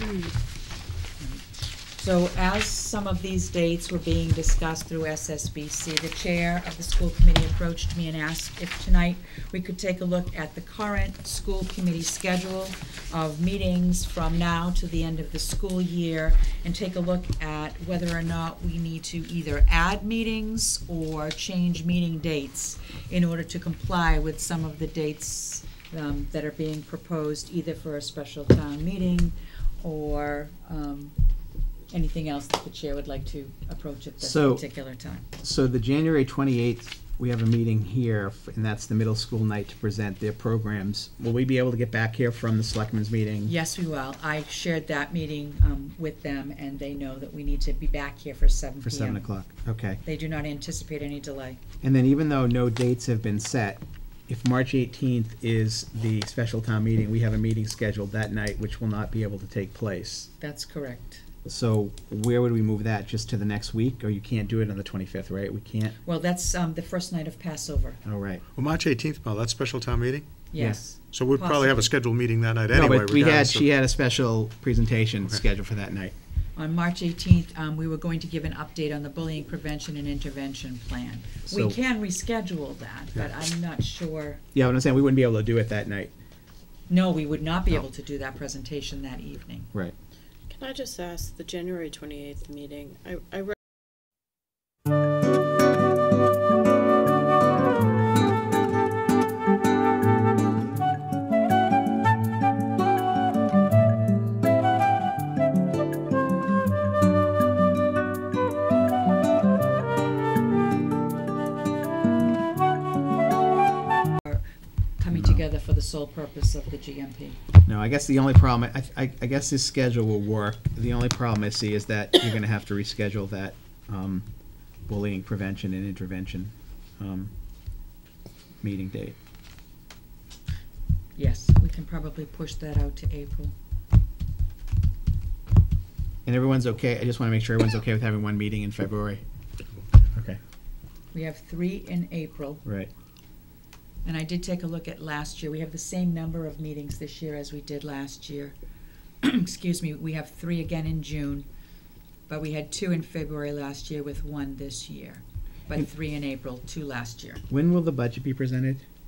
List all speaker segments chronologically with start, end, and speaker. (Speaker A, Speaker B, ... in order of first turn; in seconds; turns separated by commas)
Speaker A: 1.2-31.1, Speaker A: 31.9-35.2, Speaker B: 34.2-34.6, Speaker B: 35.4-43.5, Speaker A: 43.5-49.2, Speaker B: 48.9-50.0, Speaker A: 50.0-51.6, Speaker B: 51.8-60.3, Speaker A: 60.4-61.2, Speaker B: 61.5-66.0, Speaker A: 66.0-68.0, Speaker B: 68.0-68.4, Speaker C: 68.5-70.3, Speaker A: 70.5-71.9, Speaker B: 70.6-70.8, Speaker C: 71.1-73.7, Speaker B: 72.7-76.1, Speaker A: 76.6-84.4, Speaker B: 81.5-81.8, Speaker B: 84.5-86.1, Speaker A: 86.9-89.7, Speaker D: 90.5-93.2, Speaker A: 115.0-117.4, Speaker B: 115.1-115.4, Speaker B: 117.7-124.3, Speaker B: 124.9-127.3, Speaker B: 128.6-129.2, Speaker A: 131.2-133.5, Speaker B: 136.3-139.2, Speaker B: 140.1-140.4, Speaker A: 141.1-142.6, Speaker B: 142.7-142.9, Speaker A: 144.0-148.6, Speaker A: 149.2-151.5, Speaker A: 152.3-157.4, Speaker B: 157.5-158.8